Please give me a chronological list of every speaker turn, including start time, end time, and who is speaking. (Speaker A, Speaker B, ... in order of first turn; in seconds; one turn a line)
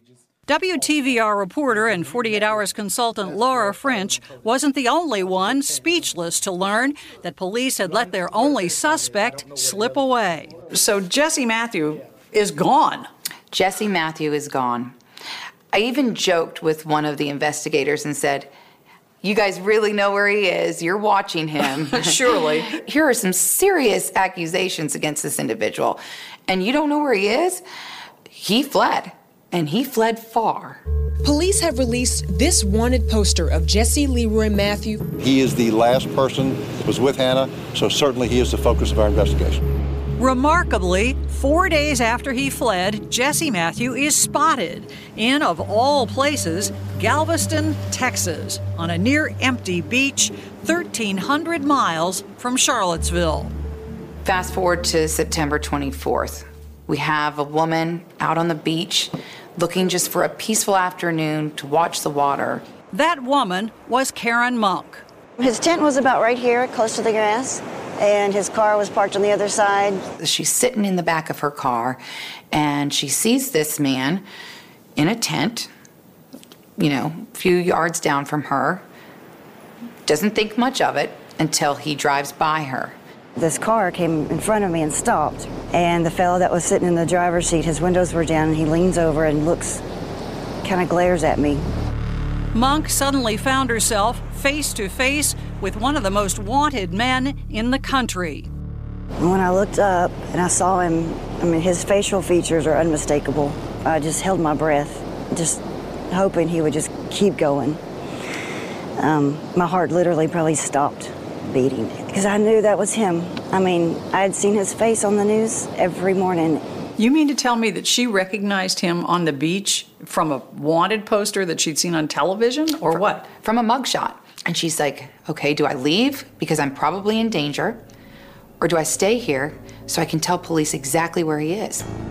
Speaker A: 0.5-13.1
Speaker B: 13.5-15.0
Speaker B: 15.7-18.5
Speaker B: 19.2-27.6
Speaker A: 21.9-22.7
Speaker B: 28.3-30.8
Speaker C: 31.2-34.9
Speaker D: 35.2-39.6
Speaker A: 40.2-53.5
Speaker B: 54.2-62.6
Speaker A: 62.9-65.0
Speaker E: 65.4-70.0
Speaker B: 70.2-72.0
Speaker B: 72.5-74.2
Speaker B: 75.0-75.7
Speaker B: 76.8-78.8
Speaker B: 80.0-83.0
Speaker E: 83.4-89.8
Speaker E: 90.6-91.7
Speaker A: 92.5-98.5
Speaker E: 99.2-107.8
Speaker E: 109.0-116.6
Speaker A: 117.0-123.2
Speaker B: 122.9-127.8
Speaker B: 128.6-131.8